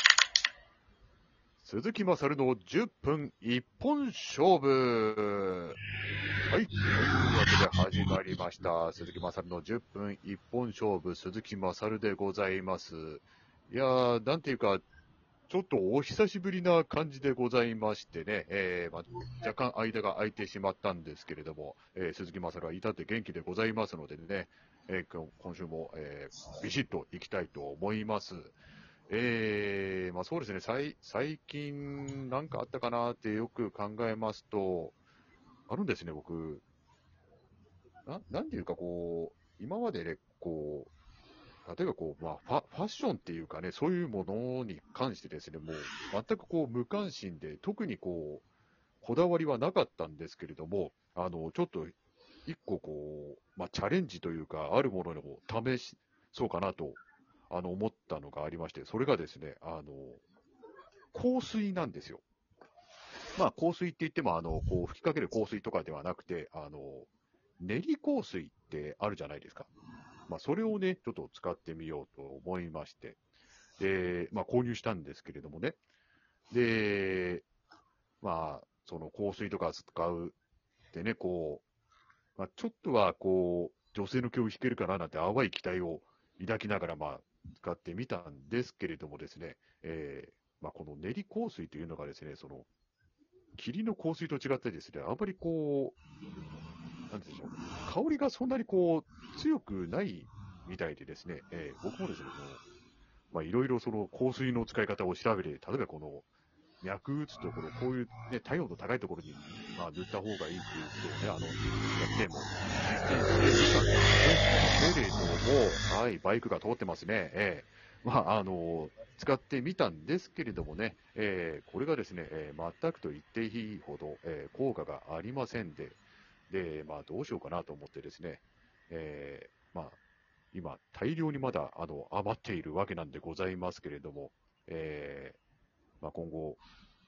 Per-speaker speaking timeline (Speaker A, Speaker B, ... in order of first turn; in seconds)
Speaker A: 1.6-5.8, 6.5-14.8, 15.5-28.6, 29.1-35.0, 35.7-36.6, 38.0-40.9, 41.6-48.4, 49.0-51.9, 52.5-60.2, 61.1-62.2, 63.4-67.1, 67.6-69.7, 70.3-73.2, 73.8-75.8, 76.5-77.4, 78.2-80.3, 80.9-81.6, 82.4-92.7, 93.6-96.0, 97.1-102.6, 103.3-106.3, 106.8-130.0, 130.5-135.4, 136.0-136.6